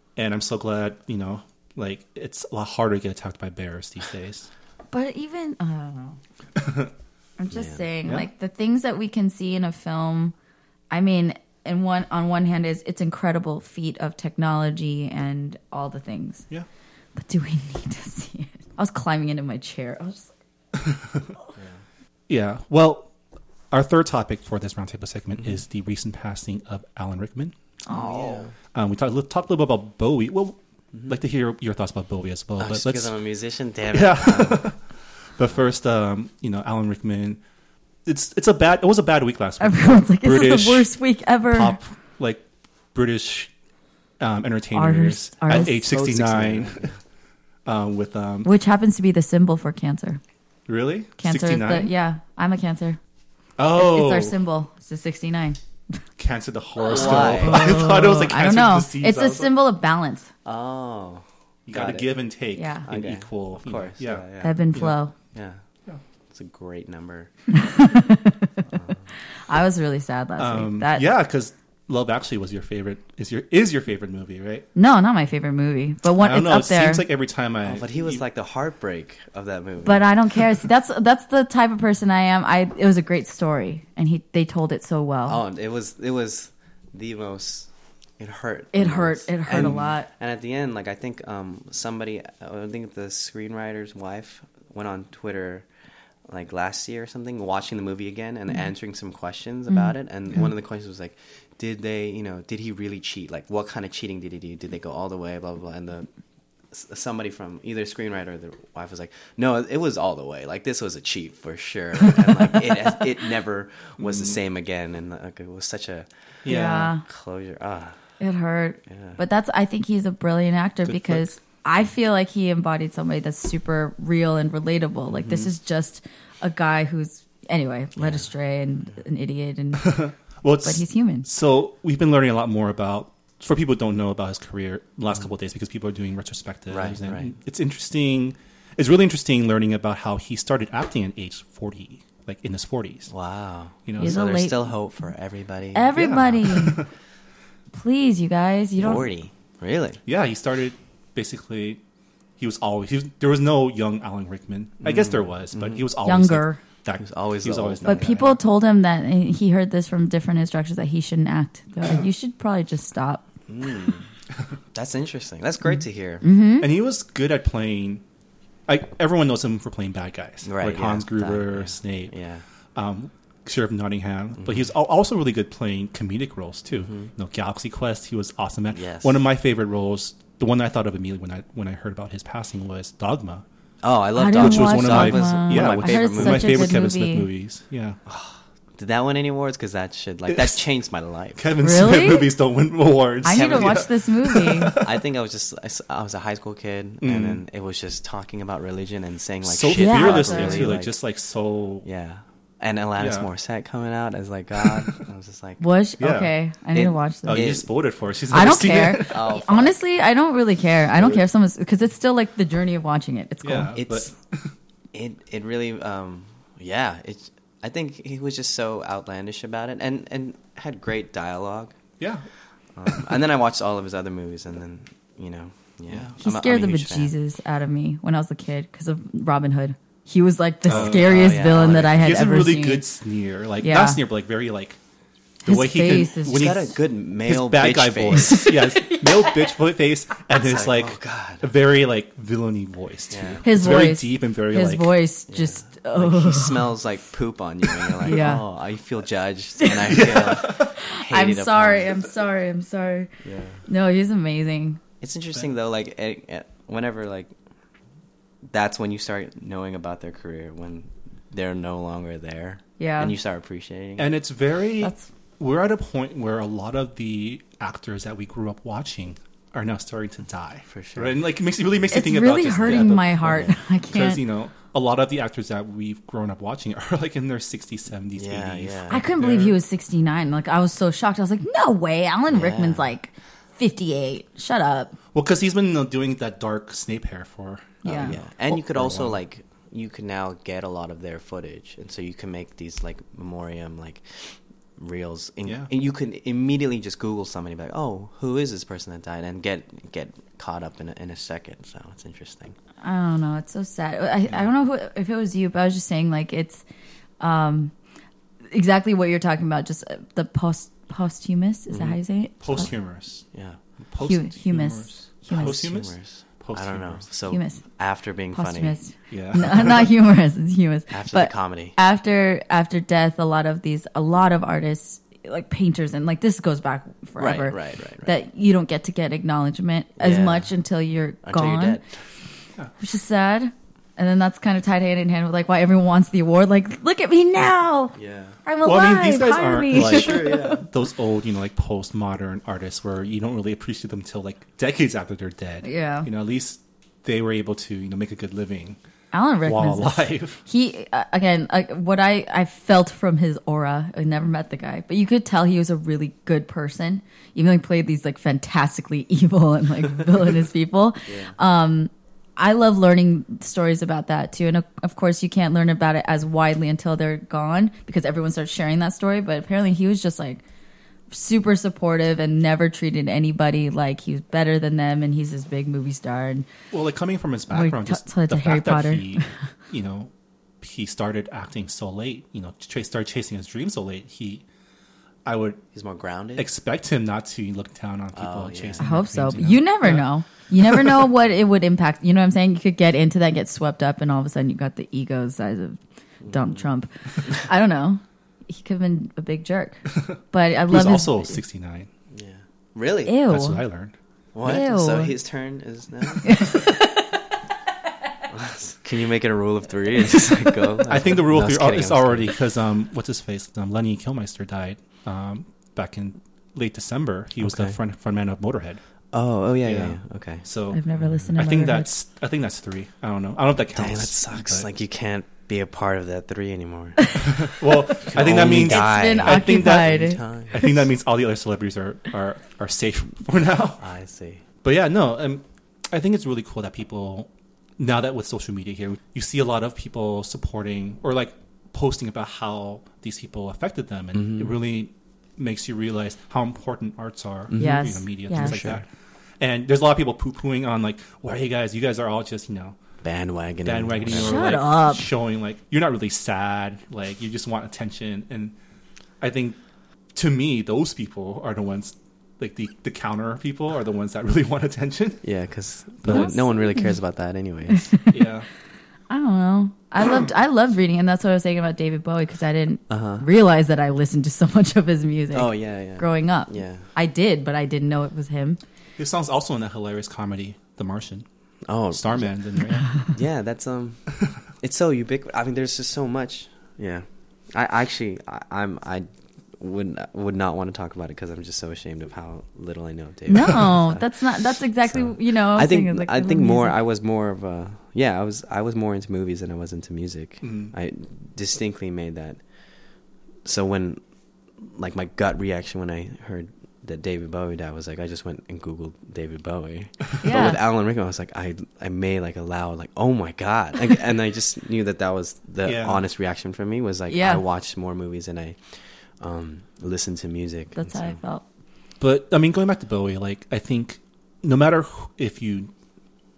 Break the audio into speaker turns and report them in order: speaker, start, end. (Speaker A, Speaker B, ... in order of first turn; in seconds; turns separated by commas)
Speaker A: 0.2-4.5, Speaker B: 4.9-6.2, Speaker A: 6.6-6.9, Speaker B: 7.4-10.3, Speaker C: 7.5-7.9, Speaker B: 10.9-16.5, Speaker B: 17.2-20.3, Speaker A: 20.8-21.3, Speaker A: 22.3-23.1, Speaker A: 23.7-27.6, Speaker B: 27.9-28.5, Speaker C: 27.9-28.6, Speaker A: 28.7-33.1, Speaker C: 32.6-34.7, Speaker A: 33.9-34.8, Speaker A: 35.4-37.4, Speaker A: 38.0-40.9, Speaker B: 39.6-41.8, Speaker A: 41.5-43.5, Speaker A: 44.2-46.9, Speaker B: 44.7-45.8, Speaker C: 45.5-46.9, Speaker A: 47.7-48.5, Speaker B: 48.4-50.2, Speaker A: 50.7-51.9, Speaker B: 51.2-53.0, Speaker A: 53.6-54.4, Speaker B: 53.8-55.6, Speaker A: 56.2-59.5, Speaker C: 56.9-57.8, Speaker B: 56.9-60.3, Speaker C: 60.5-62.1, Speaker A: 61.7-65.0, Speaker B: 62.6-62.9, Speaker C: 62.9-64.6, Speaker B: 64.4-65.1, Speaker C: 65.3-65.6, Speaker C: 66.3-67.3, Speaker B: 67.5-68.7, Speaker C: 68.7-69.1, Speaker B: 69.4-71.0, Speaker A: 70.4-74.7, Speaker B: 74.8-77.0, Speaker A: 76.2-78.2, Speaker C: 77.6-80.4, Speaker B: 79.8-85.4, Speaker C: 85.3-95.7, Speaker B: 88.7-90.1, Speaker C: 96.3-106.1, Speaker C: 106.7-118.0, Speaker A: 112.0-112.5, Speaker A: 114.0-114.4, Speaker A: 116.5-116.9, Speaker B: 116.5-117.0, Speaker B: 118.2-130.0, Speaker C: 118.9-119.2, Speaker A: 120.9-121.2, Speaker C: 125.1-125.5, Speaker C: 128.0-128.2, Speaker A: 129.8-143.1, Speaker B: 130.6-131.3, Speaker C: 136.7-137.3, Speaker C: 143.1-146.1, Speaker A: 143.9-144.2, Speaker B: 144.0-144.7, Speaker B: 145.7-146.8, Speaker A: 145.9-146.9, Speaker B: 147.7-149.1, Speaker C: 148.8-150.0, Speaker A: 150.1-151.8, Speaker A: 152.4-158.4, Speaker C: 154.8-155.9, Speaker B: 156.0-156.6, Speaker C: 157.0-158.2, Speaker B: 157.8-163.3, Speaker C: 163.5-164.1, Speaker C: 164.7-166.2, Speaker B: 166.2-166.7, Speaker A: 166.6-168.0, Speaker A: 168.7-172.1, Speaker C: 170.4-172.4, Speaker A: 172.8-183.4, Speaker C: 174.4-174.7, Speaker C: 176.7-177.1, Speaker C: 178.7-179.2, Speaker C: 183.8-186.8, Speaker B: 184.2-187.3, Speaker A: 184.3-188.0, Speaker C: 188.1-191.5, Speaker A: 190.3-190.6, Speaker A: 191.4-195.1, Speaker B: 191.6-192.3, Speaker B: 193.2-194.8, Speaker C: 193.3-193.9, Speaker C: 194.7-200.9, Speaker A: 197.0-197.4, Speaker A: 199.4-201.8, Speaker B: 199.7-200.7, Speaker C: 201.8-205.6, Speaker A: 203.0-203.3, Speaker A: 204.6-205.0, Speaker B: 205.6-207.6, Speaker A: 206.0-206.3, Speaker C: 206.8-207.7, Speaker A: 207.3-209.2, Speaker B: 208.3-213.8, Speaker C: 209.0-209.8, Speaker A: 213.4-214.5, Speaker C: 213.8-214.1, Speaker C: 214.9-221.8, Speaker A: 222.0-222.3, Speaker C: 222.8-227.1, Speaker A: 225.9-226.2, Speaker B: 226.2-232.9, Speaker C: 230.7-232.1, Speaker A: 230.7-234.8, Speaker B: 233.6-234.0, Speaker B: 235.4-236.7, Speaker A: 235.5-236.7, Speaker C: 236.3-238.5, Speaker A: 237.2-244.9, Speaker B: 238.4-239.6, Speaker C: 240.3-241.5, Speaker C: 243.1-243.4, Speaker B: 243.4-246.8, Speaker C: 245.3-251.9, Speaker B: 248.0-248.4, Speaker B: 249.6-253.1, Speaker A: 249.9-250.8, Speaker C: 253.2-253.6, Speaker B: 253.7-254.8, Speaker C: 255.0-257.3, Speaker C: 258.5-264.1, Speaker B: 262.8-263.1, Speaker A: 264.0-279.6, Speaker B: 264.8-265.1, Speaker C: 270.7-271.1, Speaker B: 271.9-274.2, Speaker C: 278.2-279.0, Speaker B: 278.9-284.9, Speaker C: 282.3-282.9, Speaker A: 285.1-289.2, Speaker B: 287.8-288.2, Speaker C: 287.9-302.6, Speaker B: 302.8-306.6, Speaker B: 307.2-307.7, Speaker B: 308.5-312.7, Speaker C: 311.7-312.0, Speaker A: 312.4-313.3, Speaker C: 313.3-313.6, Speaker A: 313.9-317.1, Speaker B: 314.0-315.6, Speaker C: 315.3-318.8, Speaker B: 317.3-317.6, Speaker B: 318.3-331.8, Speaker A: 319.1-319.9, Speaker C: 320.9-321.8, Speaker C: 327.2-328.1, Speaker C: 330.0-330.5, Speaker C: 331.2-332.0, Speaker B: 332.8-340.6, Speaker C: 337.9-338.4, Speaker A: 338.6-348.8, Speaker C: 339.7-340.6, Speaker B: 345.6-346.1, Speaker B: 349.1-370.4, Speaker A: 349.4-350.4, Speaker C: 361.1-361.4, Speaker B: 371.1-376.5, Speaker A: 376.7-384.4, Speaker B: 377.5-379.3, Speaker A: 385.2-385.6, Speaker C: 385.7-386.5, Speaker A: 386.4-391.0, Speaker C: 388.1-388.9, Speaker B: 388.8-401.4, Speaker C: 396.2-396.6, Speaker A: 399.9-401.9, Speaker C: 402.1-403.2, Speaker B: 403.1-403.6, Speaker A: 403.3-403.9, Speaker C: 404.3-406.5, Speaker B: 404.4-405.1, Speaker B: 406.2-407.1, Speaker C: 408.3-412.3, Speaker A: 410.9-418.8, Speaker C: 417.4-417.8, Speaker C: 419.1-420.4, Speaker A: 419.6-420.8, Speaker B: 420.7-421.9, Speaker C: 421.0-421.3, Speaker A: 421.3-424.7, Speaker C: 423.8-430.7, Speaker A: 427.2-433.8, Speaker B: 428.5-430.2, Speaker C: 433.8-434.4, Speaker A: 434.6-448.9, Speaker C: 444.1-444.5, Speaker C: 447.5-448.8, Speaker B: 447.6-448.7, Speaker A: 449.4-452.8, Speaker C: 453.0-454.5, Speaker A: 453.6-458.6, Speaker B: 454.1-455.1, Speaker A: 459.2-459.6, Speaker A: 460.1-465.2, Speaker C: 465.2-468.0, Speaker A: 466.0-466.4, Speaker B: 466.1-466.9, Speaker B: 467.9-468.2, Speaker A: 468.1-468.5, Speaker B: 469.1-478.6, Speaker C: 472.9-473.2, Speaker C: 475.3-476.9, Speaker A: 479.0-481.3, Speaker C: 481.7-482.4, Speaker A: 481.9-483.0, Speaker C: 483.0-489.1, Speaker C: 489.6-502.4, Speaker B: 493.3-496.8, Speaker A: 500.4-500.7, Speaker C: 503.4-504.0, Speaker C: 504.6-521.2, Speaker B: 510.2-510.6, Speaker A: 515.6-516.0, Speaker B: 517.1-517.4, Speaker B: 520.8-521.4, Speaker A: 522.0-525.7